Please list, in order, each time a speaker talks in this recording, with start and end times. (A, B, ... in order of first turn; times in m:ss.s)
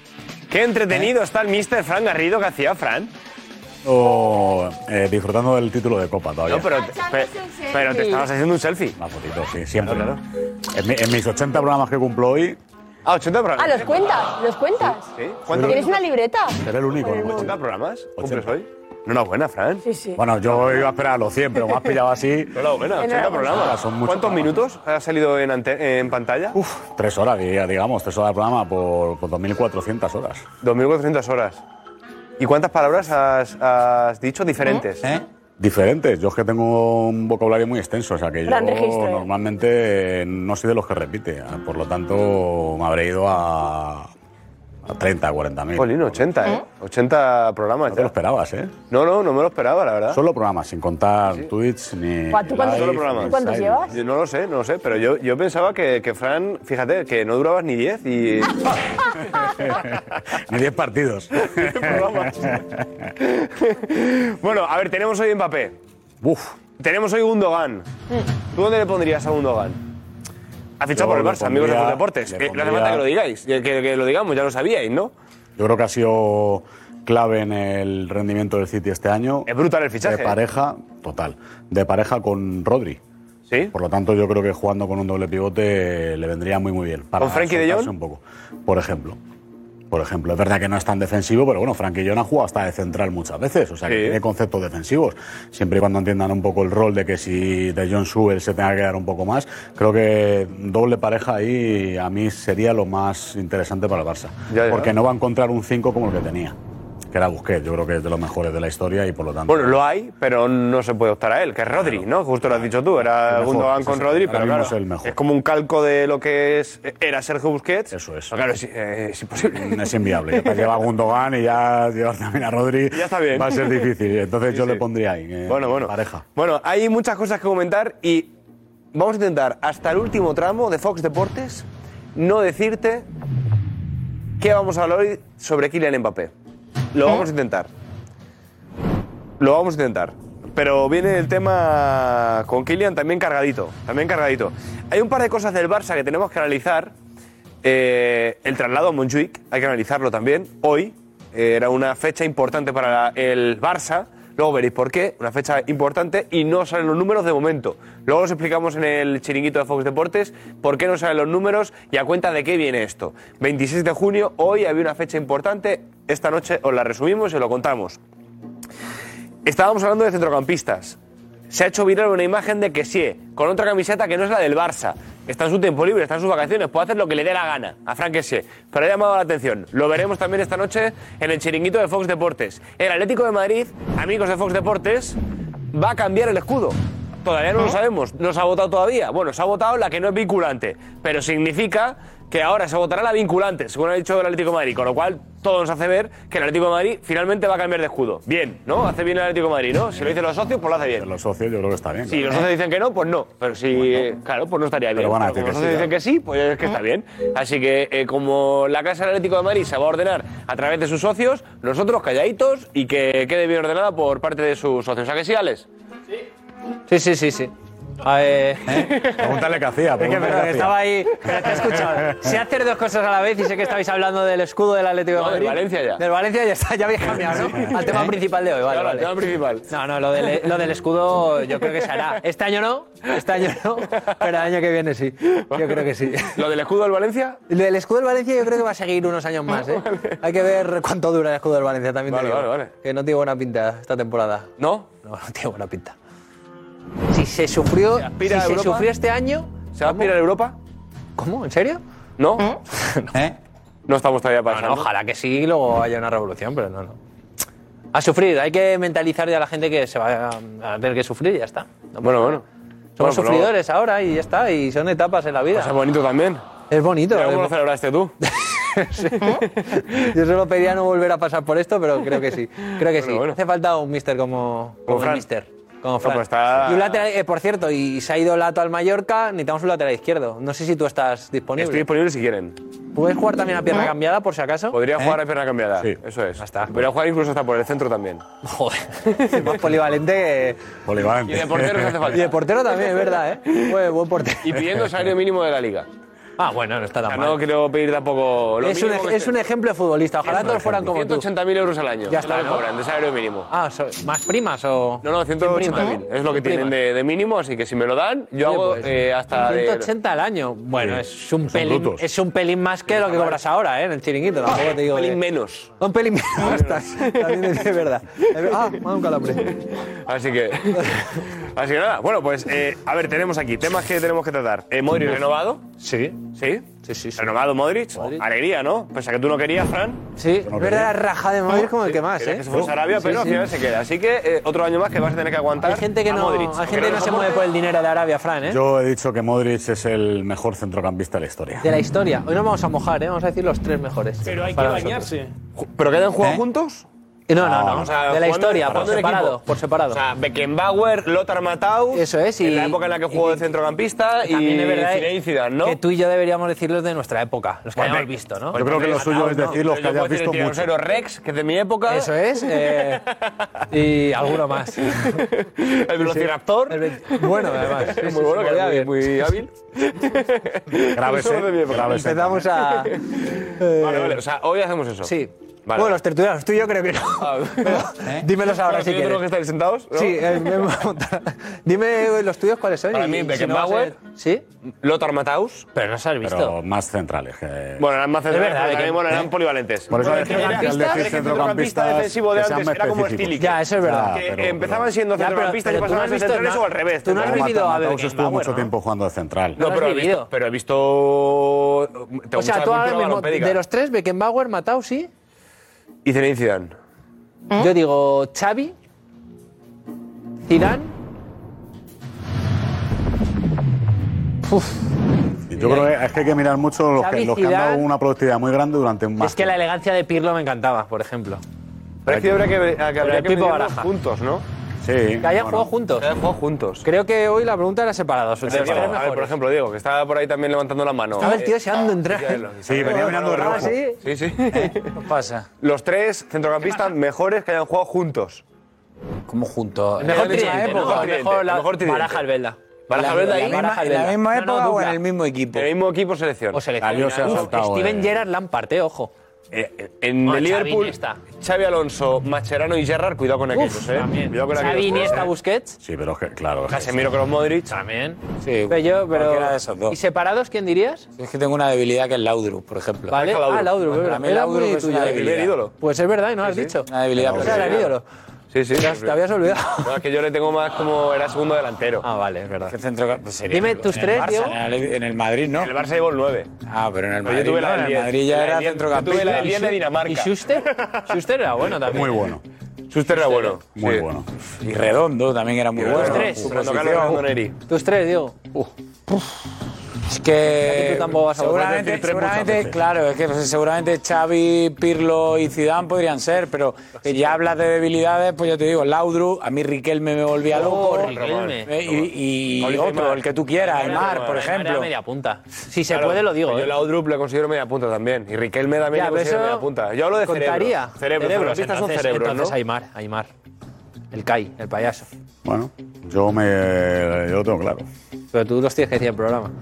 0:00.5-0:03.1 A
0:03.8-0:06.7 B
0:06.5-0:09.0 A
0:07.8-0:08.2 C
0:09.0-0:10.2 B
0:09.8-0:10.2 A
0:10.7-0:12.6 B
0:13.0-0:14.3 A
0:13.6-0:15.1 C
0:15.2-0:15.9 A
0:15.5-0:15.9 B
0:15.6-0:17.5 C
0:16.6-0:17.6 B
0:17.0-0:19.8 A
0:18.2-0:18.5 B
0:19.8-0:20.2 C
0:20.2-0:22.6 B
0:20.5-0:20.8 A
0:22.5-0:26.6 A
0:22.9-0:23.6 C
0:23.2-0:24.5 B
0:26.6-0:30.4 B
0:30.6-0:31.6 A
0:32.4-0:35.0 A
0:35.6-0:44.1 B
0:38.4-0:39.3 C
0:44.8-0:46.5 B
0:45.8-0:48.1 A
0:47.9-0:48.7 B
0:48.9-0:50.2 A
0:50.1-0:54.0 B
0:52.3-0:53.9 C
0:52.5-0:58.6 A
0:59.6-1:02.8 B
1:01.4-1:02.6 A
1:03.2-1:05.7 A
1:06.2-1:06.5 B
1:06.8-1:07.8 A
1:08.5-1:09.8 A
1:10.8-1:15.1 A
1:10.9-1:13.0 B
1:15.6-1:19.5 B
1:19.5-1:20.4 A
1:20.0-1:23.0 B
1:23.7-1:29.2 B
1:27.2-1:27.9 A
1:29.9-1:46.5 B
1:33.9-1:34.2 A
1:44.5-1:44.9 A
1:47.1-1:49.8 B
1:49.5-2:00.7 A
1:51.8-1:52.0 B
1:53.3-1:55.2 B
1:57.9-1:58.3 B
1:59.5-2:06.2 B
2:02.9-2:03.8 A
2:04.5-2:04.8 A
2:05.5-2:08.3 A
2:08.9-2:13.0 A
2:14.4-2:16.3 A
2:16.9-2:17.7 A
2:19.4-2:26.9 A
2:27.6-2:48.0 A
2:49.4-2:51.0 A
2:51.5-3:05.2 A
3:05.7-3:21.1 A
3:19.9-3:20.2 B
3:20.9-3:22.3 B
3:22.1-3:35.6 A
3:24.9-3:25.9 B
3:36.9-3:39.2 D
3:39.1-3:40.9 B
3:40.0-3:49.1 D
3:45.1-3:46.0 A
3:48.6-3:49.7 A
3:49.7-3:56.4 D
3:51.6-3:52.0 A
3:55.5-3:57.4 A
3:57.5-4:05.9 D
3:59.5-4:00.2 A
4:02.1-4:02.7 A
4:04.6-4:04.9 A
4:07.1-4:10.1 D
4:07.9-4:08.9 A
4:09.8-4:10.6 A
4:11.2-4:11.8 D
4:12.2-4:12.5 A
4:12.7-4:13.3 D
4:13.9-4:14.9 A
4:14.5-4:17.0 D
4:17.9-4:22.4 D
4:22.0-4:22.4 A
4:23.0-4:25.7 D
4:23.0-4:23.5 A
4:25.5-4:26.4 A
4:26.7-4:27.5 D
4:27.1-4:28.1 A
4:28.5-4:41.9 D
4:32.8-4:33.4 A
4:34.9-4:35.2 A
4:36.0-4:37.0 A
4:41.6-4:42.6 A
4:42.9-4:45.1 D
4:44.7-4:48.2 A
4:46.4-4:46.7 D
4:48.4-4:50.6 D
4:50.8-4:52.1 B
4:51.2-4:52.4 A
4:52.1-4:54.6 D
4:54.4-4:55.9 A
4:56.4-4:57.4 D
4:57.0-4:59.4 A
4:58.6-5:01.3 D
5:00.2-5:03.5 A
5:02.1-5:02.6 D
5:03.5-5:06.7 D
5:05.0-5:09.9 A
5:08.4-5:15.2 D
5:10.8-5:12.0 B
5:12.9-5:13.4 A
5:14.5-5:15.7 A
5:15.8-5:19.6 D
5:16.4-5:17.6 A
5:18.4-5:18.7 A
5:19.4-5:25.7 A
5:20.7-5:21.0 D
5:25.8-5:27.3 D
5:26.3-5:30.1 A
5:28.0-5:28.2 D
5:30.2-5:33.4 D
5:30.4-5:30.9 B
5:31.5-5:37.5 A
5:35.6-5:38.6 D
5:38.4-5:41.7 B
5:41.6-5:45.1 D
5:44.2-5:46.8 A
5:47.3-5:50.0 D
5:47.4-5:47.9 B
5:47.7-5:55.8 A
5:48.7-5:49.0 B
5:51.9-5:53.5 D
5:54.2-5:58.6 D
5:57.7-6:02.9 A
5:58.5-6:00.7 B
6:01.8-6:03.1 D
6:03.7-6:05.2 D
6:05.0-6:16.0 A
6:06.0-6:09.1 D
6:10.9-6:12.5 B
6:11.8-6:13.0 D
6:13.6-6:14.2 D
6:15.0-6:19.2 D
6:17.2-6:20.6 A
6:19.9-6:24.4 D
6:22.9-6:23.9 A
6:24.8-6:25.7 A
6:25.7-6:26.6 D
6:26.2-6:27.8 B
6:27.8-6:37.6 A
6:28.3-6:29.3 D
6:29.9-6:34.9 B
6:29.9-6:31.6 D
6:33.4-6:34.3 D
6:35.1-6:38.7 D
6:37.1-6:39.6 B
6:39.6-6:43.6 A
6:39.6-6:40.3 D
6:42.3-6:45.1 D
6:46.0-6:46.7 A
6:47.5-6:48.7 D
6:50.5-6:50.9 D
6:54.4-6:54.8 D
6:55.5-6:59.5 B
6:55.6-6:55.9 D
6:57.0-6:57.9 D
6:59.2-7:01.4 D
7:02.0-7:04.4 A
7:03.0-7:03.9 D
7:04.8-7:05.7 B
7:05.2-7:06.1 D
7:06.0-7:06.9 A
7:06.8-7:09.3 D
7:08.4-7:14.9 A
7:11.2-7:14.0 D
7:12.7-7:13.7 B
7:14.5-7:15.4 E
7:15.6-7:18.4 A
7:19.3-7:21.2 E
7:20.0-7:25.0 D
7:20.0-7:22.2 A
7:22.9-7:23.6 A
7:22.9-7:25.7 E
7:25.5-7:27.6 A
7:26.5-7:29.1 D
7:26.8-7:28.2 B
7:29.5-7:35.3 A
7:30.2-7:31.2 D
7:33.5-7:35.8 D
7:35.8-7:37.1 B
7:36.7-7:37.8 A
7:37.7-7:41.1 D
7:38.4-7:40.0 E
7:41.2-7:43.3 E
7:43.1-7:48.0 D
7:43.1-7:43.9 A
7:43.9-7:45.5 E
7:45.0-7:45.7 A
7:46.4-7:46.7 A
7:46.9-7:47.8 E
7:47.3-7:47.6 B
7:47.3-7:47.8 A
7:48.5-7:49.2 A
7:48.7-7:50.0 D
7:49.8-7:52.0 A
7:52.0-7:52.8 D
7:52.7-7:55.7 E
7:53.5-7:54.6 D
7:55.6-7:56.5 A
7:56.7-7:59.7 E
7:57.2-8:00.9 A
7:59.2-8:02.4 D
8:01.8-8:02.4 B
8:02.9-8:04.1 A
8:03.1-8:03.6 D
8:03.8-8:04.3 B
8:04.6-8:07.2 E
8:05.8-8:07.5 A
8:05.9-8:07.1 D
8:07.7-8:08.4 D
8:10.1-8:21.1 E
8:10.5-8:12.6 D
8:17.0-8:17.4 D
8:20.5-8:21.7 D
8:20.5-8:21.6 A
8:21.6-8:24.9 E
8:22.6-8:24.5 A
8:23.5-8:26.8 D
8:25.8-8:32.6 A
8:28.9-8:29.6 D
8:30.2-8:33.3 D
8:34.1-8:35.1 D
8:35.4-8:37.8 B
8:38.3-8:39.5 D